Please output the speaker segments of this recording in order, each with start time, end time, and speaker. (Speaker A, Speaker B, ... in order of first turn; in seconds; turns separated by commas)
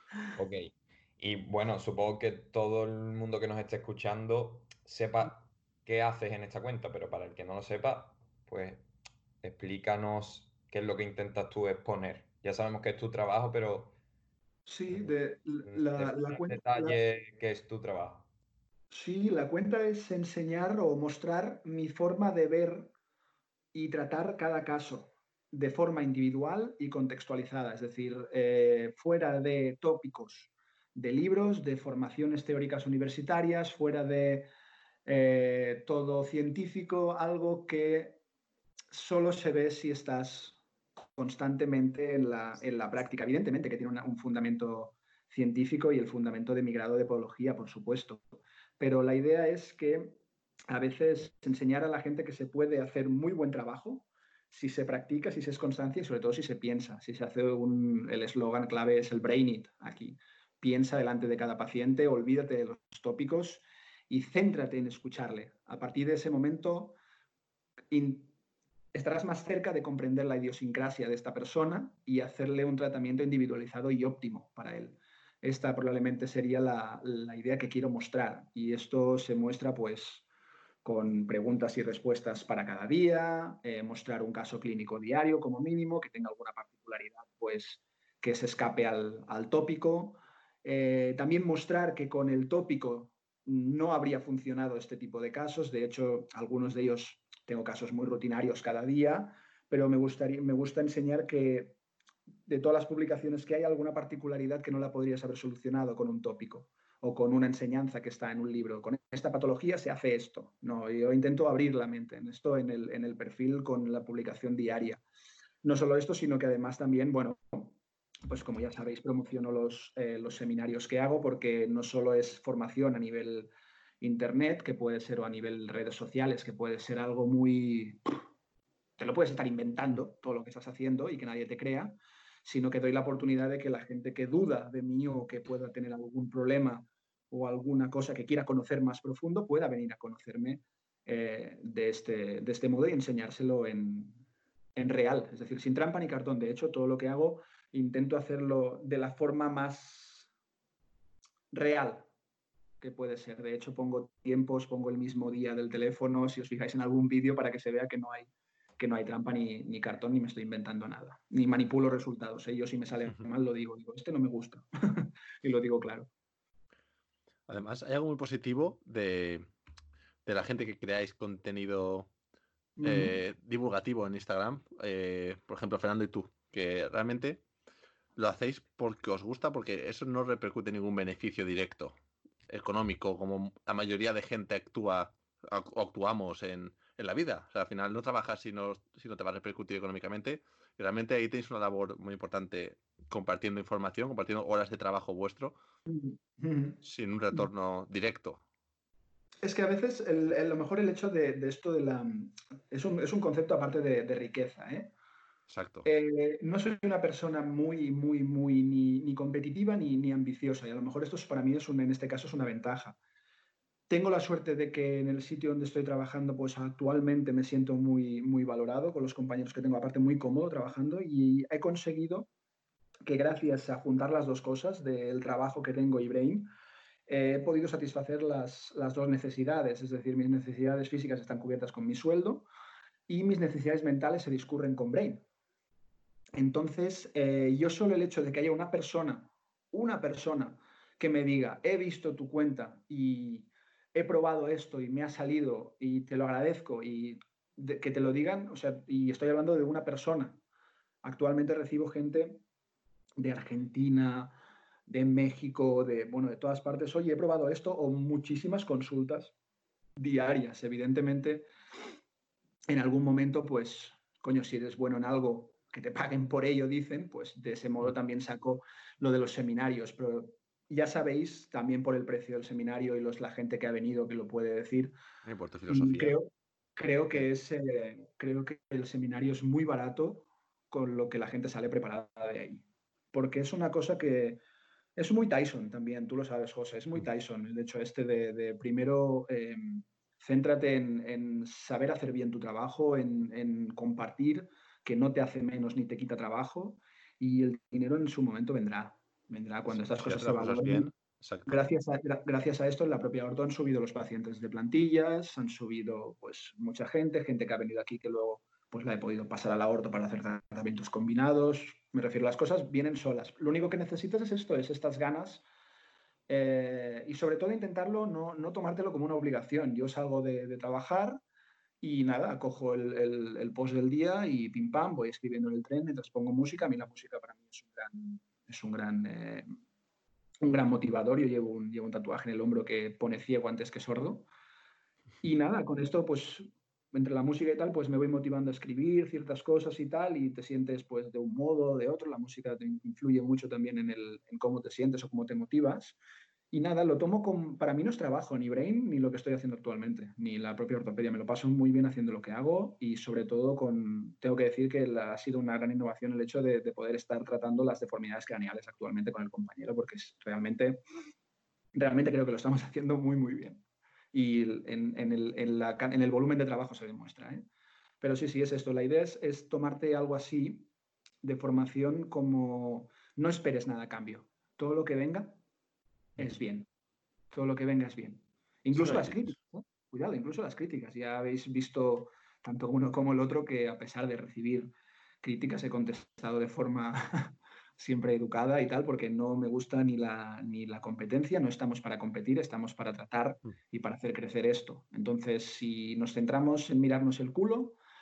Speaker A: 0.4-8.8, Speaker A: 9.4-13.9, Speaker B: 14.7-17.0, Speaker A: 15.7-18.3, Speaker B: 18.9-22.9, Speaker B: 23.7-34.5, Speaker B: 35.0-38.2, Speaker B: 38.9-40.6, Speaker B: 41.2-48.2, Speaker B: 48.8-50.2, Speaker B: 50.7-67.0, Speaker B: 67.9-68.3, Speaker B: 68.9-80.2, Speaker B: 80.8-101.8, Speaker B: 102.5-115.0, Speaker B: 115.6-123.5, Speaker B: 124.0-128.2, Speaker B: 129.0-144.2, Speaker B: 144.8-150.3, Speaker B: 151.5-152.1, Speaker B: 152.8-166.1, Speaker C: 167.5-169.5, Speaker C: 170.2-172.1, Speaker B: 172.8-173.1, Speaker C: 172.8-177.4, Speaker C: 178.2-181.9, Speaker C: 182.5-195.6, Speaker B: 195.9-196.8, Speaker C: 196.8-198.4, Speaker B: 199.4-204.9, Speaker C: 205.5-205.9, Speaker B: 205.8-213.0, Speaker B: 213.9-222.3, Speaker B: 223.1-226.5, Speaker B: 227.1-232.5, Speaker B: 233.1-235.2, Speaker B: 236.3-250.4, Speaker B: 251.0-252.4, Speaker B: 253.2-259.3, Speaker B: 260.0-261.5, Speaker B: 262.7-274.9, Speaker C: 275.2-276.2, Speaker B: 275.7-284.4, Speaker B: 284.9-300.9, Speaker C: 299.7-301.6, Speaker B: 301.4-315.4, Speaker B: 316.3-321.2, Speaker B: 321.8-329.5, Speaker B: 330.4-334.3, Speaker B: 335.2-346.0, Speaker B: 346.5-360.8, Speaker B: 361.7-367.4, Speaker B: 368.0-370.7, Speaker B: 371.2-375.4, Speaker B: 376.2-376.7, Speaker B: 377.3-384.7, Speaker C: 378.7-379.3, Speaker B: 385.2-397.8